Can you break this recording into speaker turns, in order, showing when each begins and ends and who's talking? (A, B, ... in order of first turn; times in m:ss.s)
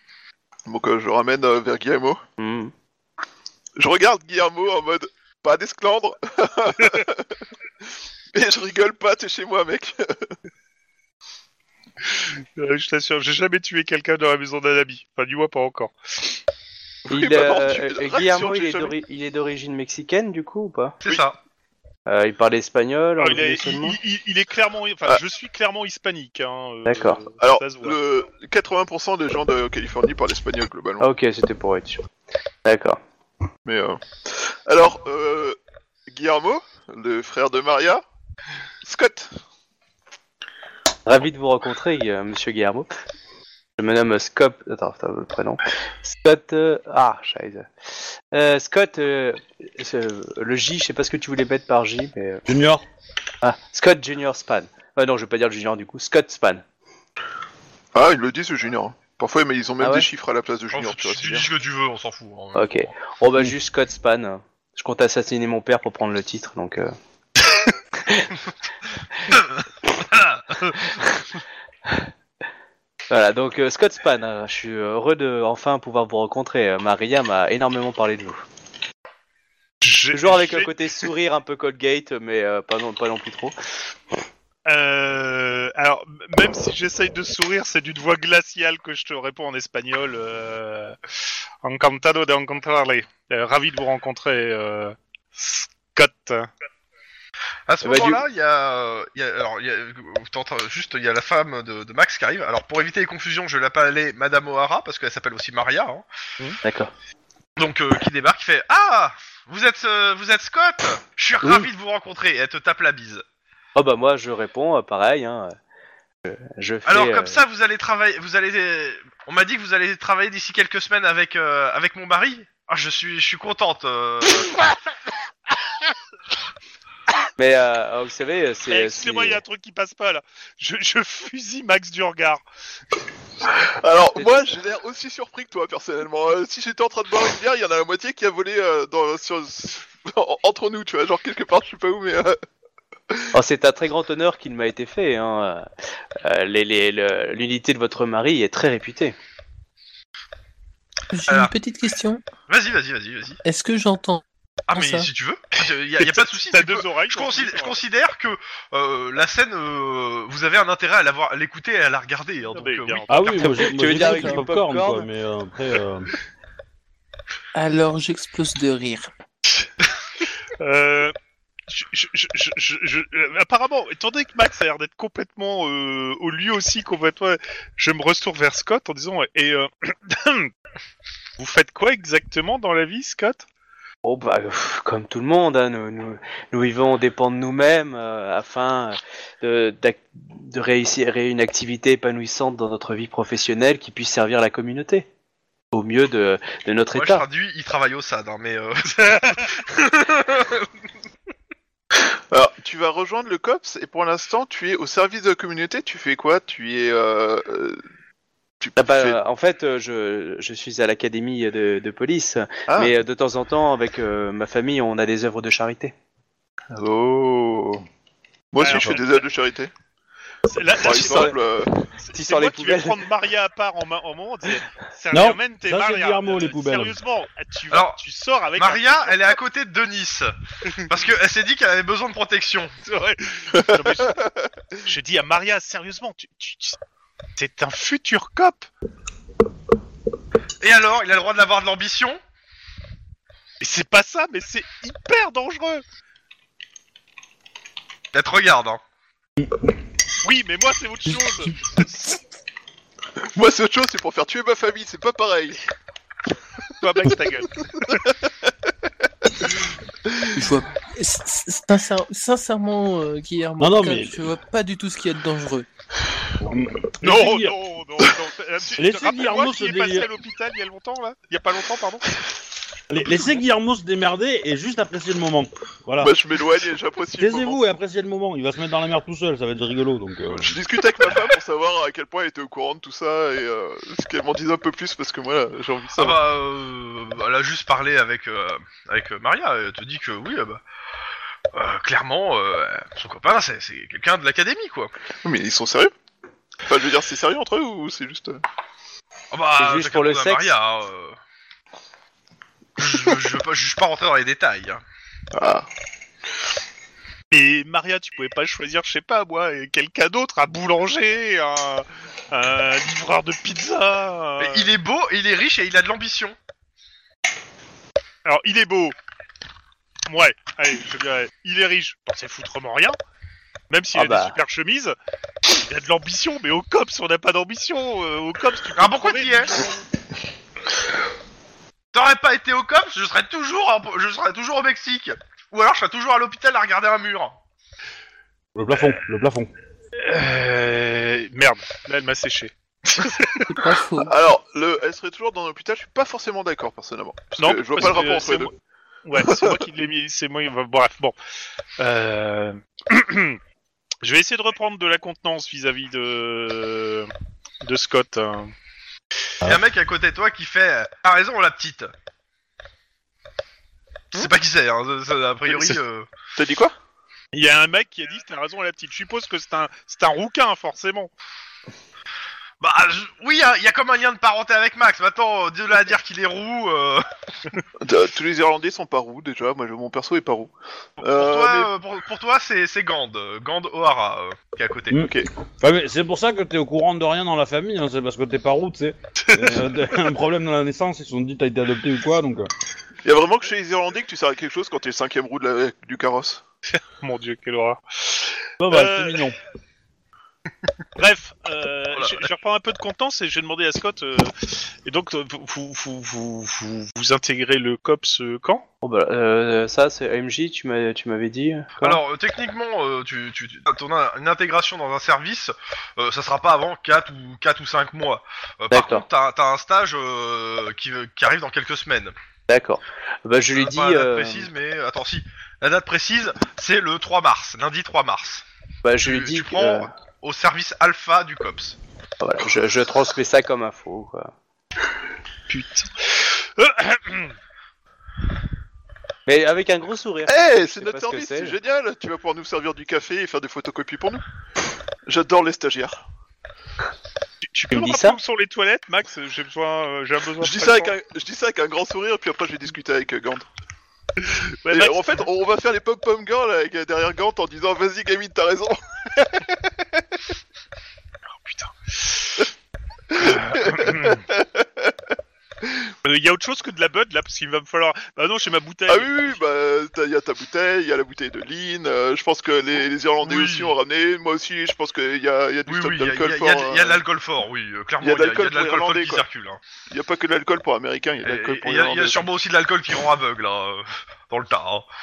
0:00.7-0:02.2 A
0:02.4-0:02.7 B
0:03.8-0:07.4 A
0:08.3-0:10.3 A
0:12.0-0:16.4 C
0:17.1-0:18.9 A
0:17.1-0:21.0 B
0:21.0-0:21.4 D
0:22.1-0:24.0 B
0:23.2-0:28.0 C
0:26.9-0:27.2 B
0:27.4-0:31.1 A
0:31.0-0:32.1 B
0:32.6-0:33.0 B
0:33.7-0:38.0 A
0:38.8-0:39.4 A
0:41.1-0:42.9 B
0:43.8-0:52.4 B
0:52.5-0:52.9 E
0:53.4-0:56.6 B
0:57.9-1:01.5 A
0:59.8-1:00.1 B
1:00.7-1:02.9 D
1:02.6-1:06.9 B
1:08.0-1:08.4 B
1:10.1-1:10.4 D
1:10.8-1:11.3 B
1:13.1-1:18.4 B
1:19.8-1:20.9 C
1:20.1-1:23.6 B
1:24.7-1:31.0 C
1:31.6-1:36.5 C
1:37.7-1:46.0 D
1:37.8-1:38.2 B
1:46.6-1:46.9 B
1:47.6-1:53.2 D
1:51.4-1:51.7 B
1:53.8-1:55.6 B
1:56.3-1:57.4 B
1:56.9-2:04.6 D
2:07.4-2:09.4 B
2:08.7-2:12.4 C
2:13.6-2:22.4 A
2:23.3-2:25.7 B
2:26.2-2:29.2 B
2:31.1-2:32.2 F
2:32.5-2:33.4 D
2:33.4-2:35.1 F
2:34.7-2:43.5 D
2:36.0-2:37.8 C
2:42.5-2:43.8 C
2:43.1-2:46.1 E
2:43.4-2:45.1 B
2:44.0-2:44.4 F
2:47.6-2:49.1 F
2:50.6-2:51.2 C
2:51.7-3:00.5 C
3:01.4-3:03.5 C
3:04.0-3:15.1 B
3:15.7-3:17.3 B
3:16.9-3:20.7 D
3:22.0-3:27.8 A
3:28.6-3:29.2 A
3:28.8-3:36.0 B
3:32.7-3:32.9 A
3:36.7-3:37.8 A
3:38.5-3:39.7 A
3:38.6-3:39.2 C
3:40.5-3:41.4 C
3:40.8-3:41.7 A
3:40.8-3:41.3 B
3:42.0-3:49.4 C
3:42.1-3:43.0 B
3:45.1-3:47.0 E
3:47.7-3:48.0 D
3:48.6-3:52.7 D
3:52.8-3:54.2 C
3:53.6-3:54.2 A
3:54.8-3:56.8 C
3:57.4-3:58.7 C
4:00.6-4:02.2 D
4:03.6-4:05.8 C
4:08.1-4:08.8 D
4:10.2-4:11.8 C
4:13.2-4:15.6 A
4:16.8-4:18.0 C
4:17.9-4:18.5 A
4:20.3-4:25.7 F
4:23.6-4:24.2 E
4:26.4-4:27.6 E
4:27.0-4:32.1 C
4:28.8-4:30.1 E
4:32.9-4:36.1 E
4:36.0-4:37.6 A
4:37.2-4:40.6 E
4:40.3-4:46.2 A
4:46.0-4:50.6 D
4:51.5-4:54.9 D
4:55.2-4:55.9 A
4:56.6-4:58.4 A
4:59.3-5:01.2 D
4:59.6-5:00.5 B
5:02.8-5:04.8 D
5:05.3-5:05.7 A
5:07.3-5:14.7 C
5:14.4-5:16.4 D
5:18.2-5:19.0 C
5:20.1-5:23.0 C
5:23.7-5:29.7 C
5:23.9-5:24.4 B
5:28.8-5:29.6 D
5:31.9-5:37.4 D
5:38.6-5:39.5 E
5:40.0-5:43.5 C
5:43.5-5:44.1 F
5:44.0-5:48.5 A
5:47.4-5:48.5 C
5:49.0-5:51.2 C
5:49.2-5:49.6 A
5:51.8-5:53.4 C
5:54.0-5:57.1 C
5:57.6-5:58.5 C
5:59.4-6:01.9 D
6:04.1-6:06.1 D
6:06.4-6:06.8 A
6:07.3-6:11.1 C
6:12.6-6:17.1 D
6:17.8-6:21.7 A
6:21.0-6:25.0 D
6:24.9-6:32.5 E
6:25.0-6:25.3 A
6:29.2-6:29.7 C
6:33.0-6:36.4 A
6:36.7-6:39.3 C
6:38.6-6:39.4 E
6:41.0-6:48.6 C
6:41.9-6:42.3 D
6:48.8-6:52.0 B
6:51.8-7:02.1 D
6:58.7-6:59.1 B
7:02.5-7:04.5 B
7:03.5-7:08.4 D
7:08.8-7:09.9 B
7:09.0-7:11.8 D
7:12.2-7:14.3 B
7:15.5-7:17.4 C
7:19.3-7:21.6 B
7:20.3-7:24.2 A
7:25.1-7:26.0 A
7:27.4-7:30.9 C
7:27.7-7:28.2 B
7:30.4-7:33.5 A
7:34.2-7:35.2 C
7:34.7-7:40.1 A
7:41.3-7:42.5 C
7:43.1-7:45.0 A
7:43.2-7:44.2 C
7:45.6-7:45.9 A
7:46.0-7:49.4 C
7:48.9-7:57.0 A
7:53.2-7:53.8 D
7:55.7-7:59.6 D
7:58.0-7:59.3 A
7:59.9-8:02.3 A
8:01.2-8:04.9 D